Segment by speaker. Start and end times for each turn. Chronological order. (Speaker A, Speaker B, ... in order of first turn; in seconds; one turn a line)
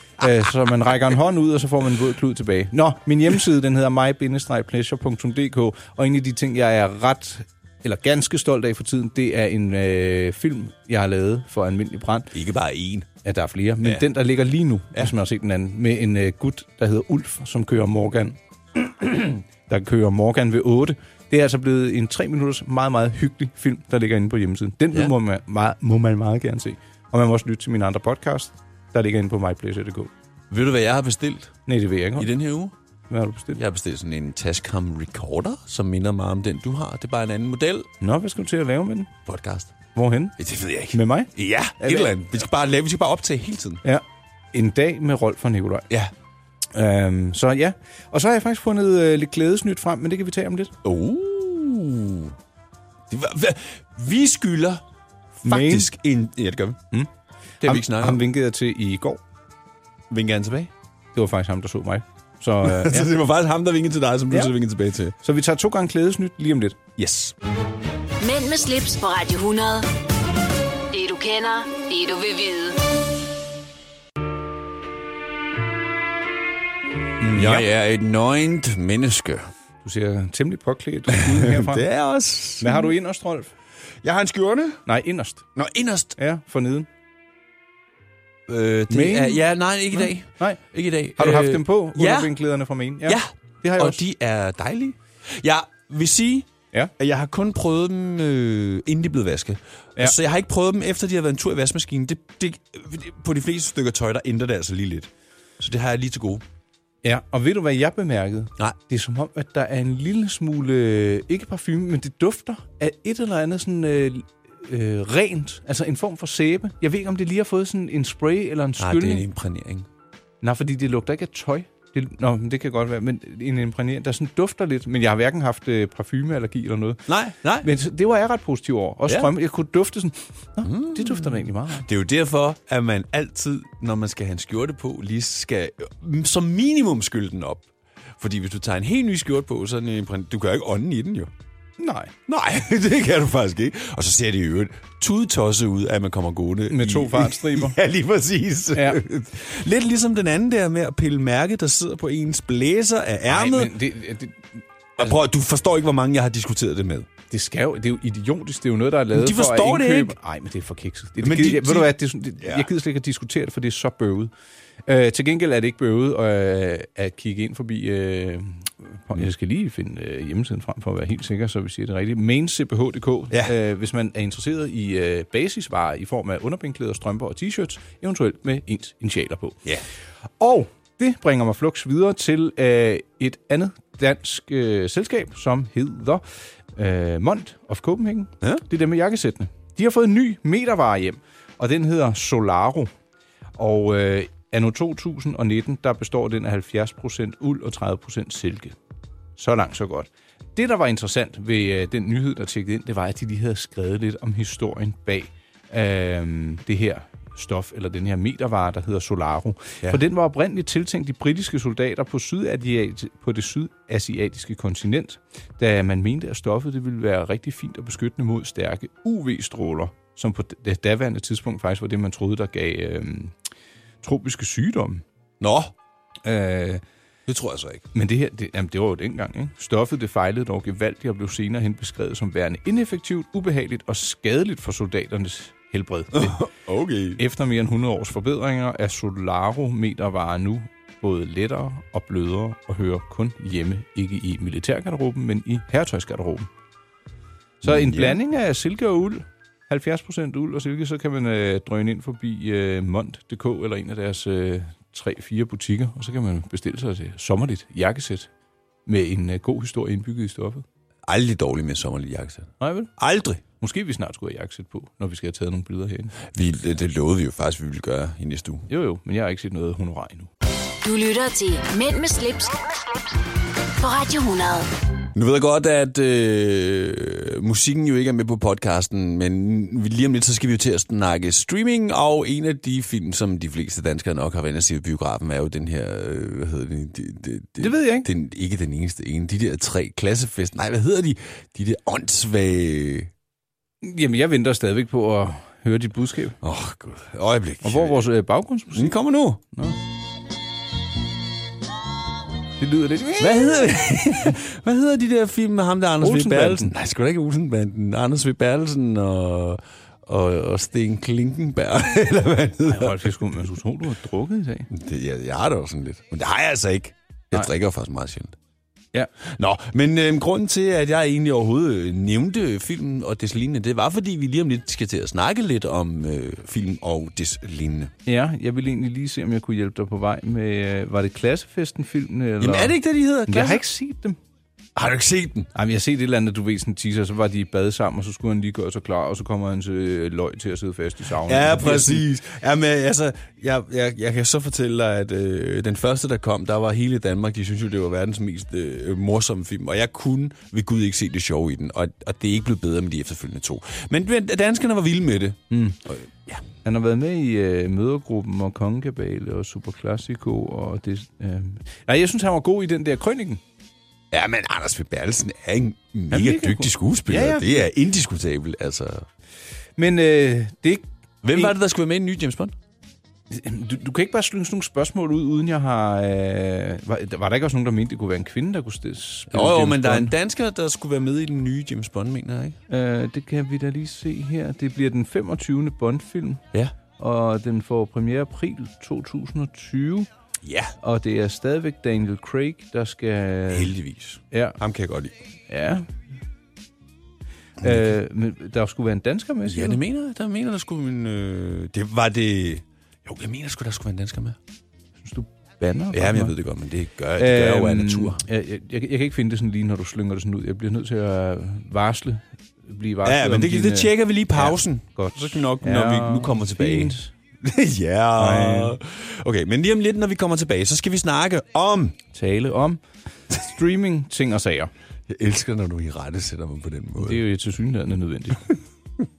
Speaker A: 0.2-12.3
Speaker B: 12.3-13.1
Speaker A: 13.2-30.1
Speaker B: 30.5-31.6
Speaker A: 31.7-32.3
Speaker B: 32.2-32.7
Speaker A: 33.1-33.6
Speaker B: 33.5-37.9
Speaker A: 38.0-39.1
Speaker B: 39.3-39.7
Speaker A: 40.0-40.4
Speaker B: 40.4-43.8
Speaker A: 40.9-42.1
Speaker A: 43.8-45.9
Speaker A: 46.7-50.8
Speaker B: 50.8-52.4
Speaker B: 53.1-54.8
Speaker B: 55.4-56.8
Speaker A: 55.5-55.9
Speaker B: 57.6-58.2
Speaker A: 57.6-59.2
Speaker B: 60.1-60.7
Speaker A: 61.1-63.2
Speaker B: 62.6-65.2
Speaker A: 65.2-66.8
Speaker B: 67.0-67.4
Speaker C: 68.2-69.9
Speaker C: 70.9-72.9
Speaker A: 77.2-77.7
Speaker B: 77.3-79.5
Speaker A: 79.8-81.8
Speaker B: 81.1-82.9
Speaker A: 82.6-83.5
Speaker B: 84.0-84.8
Speaker A: 84.9-85.5
Speaker B: 85.6-86.2
Speaker A: 86.2-86.9
Speaker B: 88.5-92.3
Speaker A: 88.9-90.6
Speaker A: 91.2-94.0
Speaker B: 93.1-106.4
Speaker A: 107.0-119.3
Speaker B: 118.8-119.9
Speaker A: 120.4-127.0
Speaker B: 127.1-127.7
Speaker A: 127.6-131.9
Speaker B: 130.7-137.7
Speaker B: 138.2-141.3
Speaker A: 141.8-142.1
Speaker B: 142.3-153.7
Speaker A: 146.7-147.8
Speaker A: 148.7-149.0
Speaker A: 153.3-155.2
Speaker B: 155.0-157.1
Speaker A: 157.3-164.3
Speaker B: 159.1-160.2
Speaker B: 161.2-162.7
Speaker A: 164.9-179.7
Speaker A: 180.4-186.2
Speaker A: 186.8-192.9
Speaker A: 193.6-198.8
Speaker A: 199.4-223.3
Speaker A: 224.0-225.0
Speaker B: 225.4-225.7
Speaker A: 226.2-226.8
Speaker B: 227.3-227.9
Speaker A: 227.9-236.5
Speaker B: 236.1-237.2
Speaker A: 237.2-246.5
Speaker B: 247.6-248.2
Speaker A: 247.6-258.3
Speaker A: 258.9-260.6
Speaker B: 261.1-263.4
Speaker A: 262.6-262.9
Speaker A: 263.4-266.2
Speaker B: 266.3-268.7
Speaker A: 268.7-270.3
Speaker C: 270.8-273.0
Speaker C: 273.7-274.7
Speaker B: 275.1-293.1
Speaker A: 287.6-288.1
Speaker A: 293.8-296.4
Speaker B: 296.4-298.1
Speaker A: 297.6-299.0
Speaker B: 298.7-299.4
Speaker A: 299.5-299.8
Speaker A: 302.6-303.7
Speaker B: 303.2-313.1
Speaker A: 306.0-306.7
Speaker A: 312.6-314.7
Speaker B: 314.7-318.4
Speaker B: 319.2-327.9
Speaker A: 328.1-334.2
Speaker B: 332.4-333.6
Speaker B: 334.8-335.5
Speaker A: 335.5-342.0
Speaker B: 341.2-356.4
Speaker A: 355.5-355.8
Speaker A: 356.6-363.4
Speaker B: 364.1-369.1
Speaker A: 366.1-367.6
Speaker A: 369.8-371.6
Speaker B: 371.2-372.5
Speaker A: 373.3-380.1
Speaker B: 379.3-382.6
Speaker A: 382.7-386.4
Speaker A: 387.0-390.1
Speaker B: 390.4-390.8
Speaker A: 390.8-393.7
Speaker B: 393.5-395.2
Speaker A: 394.3-394.6
Speaker A: 395.5-395.9
Speaker A: 397.6-399.8
Speaker B: 397.6-397.9
Speaker B: 399.5-404.4
Speaker A: 405.0-406.4
Speaker B: 405.9-408.2
Speaker A: 407.2-417.1
Speaker B: 413.1-422.0
Speaker A: 418.2-418.8
Speaker A: 422.1-422.8
Speaker A: 423.3-424.7
Speaker B: 425.1-427.2
Speaker A: 427.0-428.5